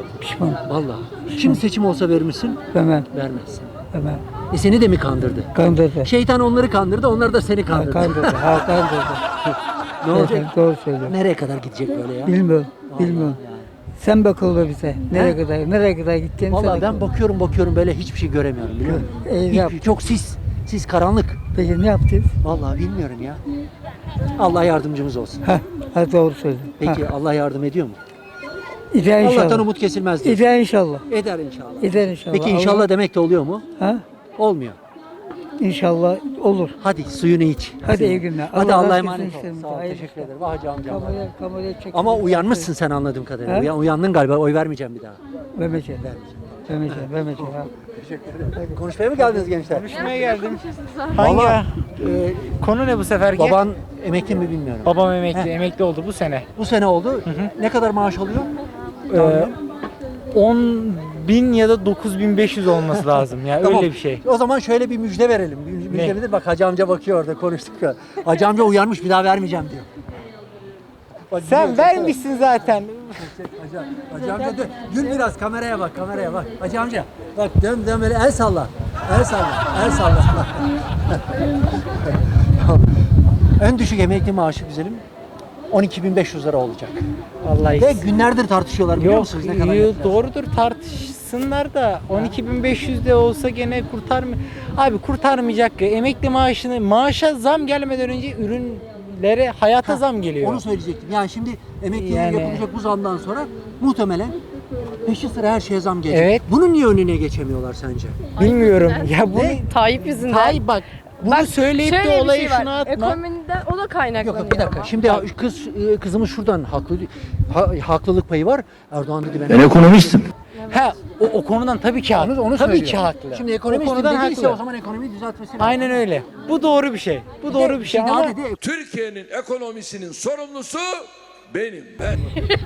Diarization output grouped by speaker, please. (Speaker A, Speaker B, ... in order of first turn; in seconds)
Speaker A: 0.2-0.6, 1.3-1.6, 2.7-3.1, 3.9-4.2, 5.5-6.1, 7.7-9.2, 10.1-11.2, 12.2-13.4, 14.0-17.0, 18.9-20.0, 21.5-22.4, 25.4-27.0, 28.9-29.7, 30.2-31.1, 31.8-32.9, 33.8-34.0, 35.6-36.8, 37.8-40.3, 40.9-42.7, 43.5-43.7, 45.5-46.0, 46.7-47.7
Speaker B: 0.7-3.7, 4.5-5.5, 6.0-8.6, 9.5-10.5, 11.0-12.4, 12.9-13.7, 15.1-15.4, 16.5-21.4, 22.4-23.4, 24.4-25.4, 26.8-28.0, 29.2-30.5, 31.1-33.6, 34.4-34.8, 36.8-41.2, 41.9-45.2, 46.0-49.9, 51.2-52.5, 53.4-55.5, 56.6-58.5, 59.1-59.5, 63.6-69.9, 71.3-72.2, 73.2-81.2, 83.6-85.0, 85.7-87.0, 87.8-90.3, 99.8-104.4, 105.0-108.3, 109.3-109.7, 114.2-120.2, 122.2-126.0, 127.5-128.6
Speaker C: 49.5-51.9, 52.6-53.6, 54.9-56.5, 59.1-59.5, 60.3-64.2, 65.9-66.2, 71.4-73.2, 87.4-88.0, 89.0-100.6, 102.0-102.6, 106.1-106.4, 108.4-113.2, 115.0-115.2, 120.7-124.6, 125.6-128.4
Speaker D: 49.9-51.3, 108.4-110.6, 111.2-115.0
Speaker E: 128.6-132.3